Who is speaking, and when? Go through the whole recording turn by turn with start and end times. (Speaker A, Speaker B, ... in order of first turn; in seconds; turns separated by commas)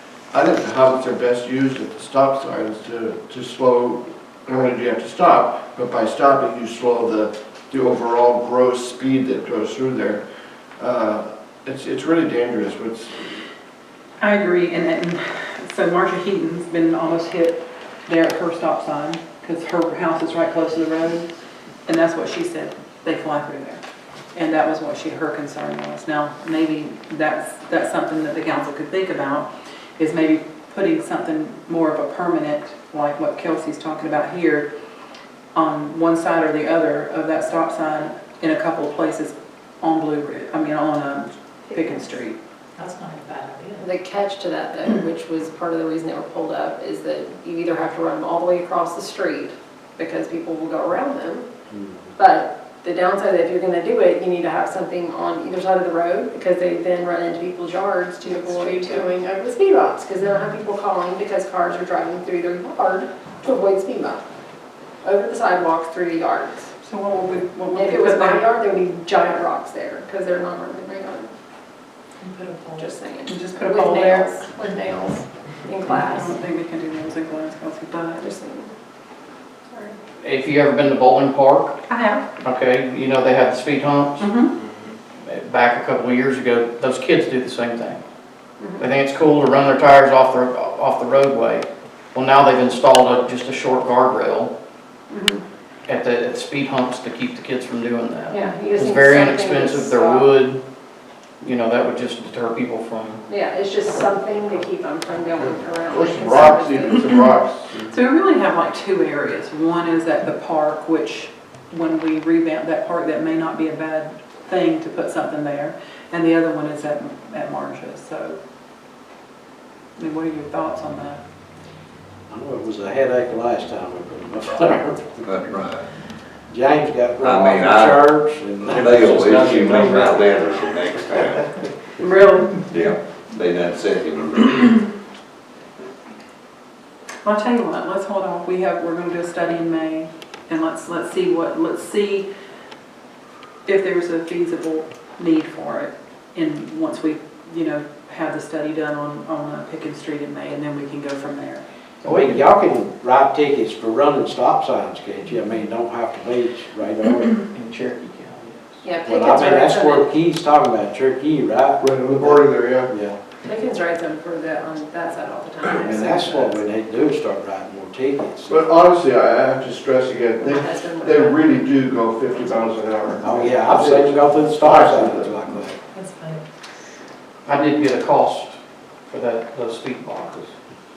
Speaker A: 0.3-10.2, Speaker A: 10.8-13.3, Speaker B: 14.2-21.3, Speaker B: 21.9-23.8, Speaker B: 24.3-34.7, Speaker B: 35.5-42.4, Speaker C: 42.8-43.8, Speaker D: 43.8-51.5, Speaker E: 51.7-52.0, Speaker D: 52.2-64.2, Speaker B: 58.3-59.1, Speaker D: 65.0-66.7, Speaker B: 66.8-68.5, Speaker D: 67.7-71.3, Speaker C: 72.2-72.9, Speaker D: 72.8-76.3, Speaker B: 73.3-74.4, Speaker B: 75.9-78.3, Speaker D: 78.2-78.7, Speaker F: 80.2-81.8, Speaker B: 81.9-82.3, Speaker F: 82.4-84.3, Speaker B: 84.2-84.5, Speaker F: 85.2-88.0, Speaker D: 88.6-88.9, Speaker F: 88.8-94.5, Speaker D: 95.1-95.4, Speaker F: 95.9-100.6, Speaker D: 98.3-100.3, Speaker F: 101.4-103.2, Speaker D: 103.3-107.3, Speaker A: 105.4-107.9, Speaker B: 107.9-118.4, Speaker B: 120.0-121.2, Speaker E: 122.3-125.2, Speaker G: 125.2-125.9, Speaker E: 126.5-130.4, Speaker G: 127.2-131.5, Speaker B: 132.0-132.7, Speaker G: 132.7-134.8, Speaker B: 137.2-142.3, Speaker B: 143.7-151.6, Speaker F: 152.0-152.4, Speaker E: 152.0-157.5, Speaker F: 157.5-158.8, Speaker D: 158.8-160.1, Speaker E: 159.1-163.2, Speaker A: 161.8-162.9, Speaker D: 163.4-166.6, Speaker E: 165.7-168.6, Speaker A: 168.5-175.7, Speaker D: 170.4-171.6, Speaker E: 173.2-175.8, Speaker C: 175.9-176.4, Speaker F: 177.5-178.6, Speaker F: 179.1-180.5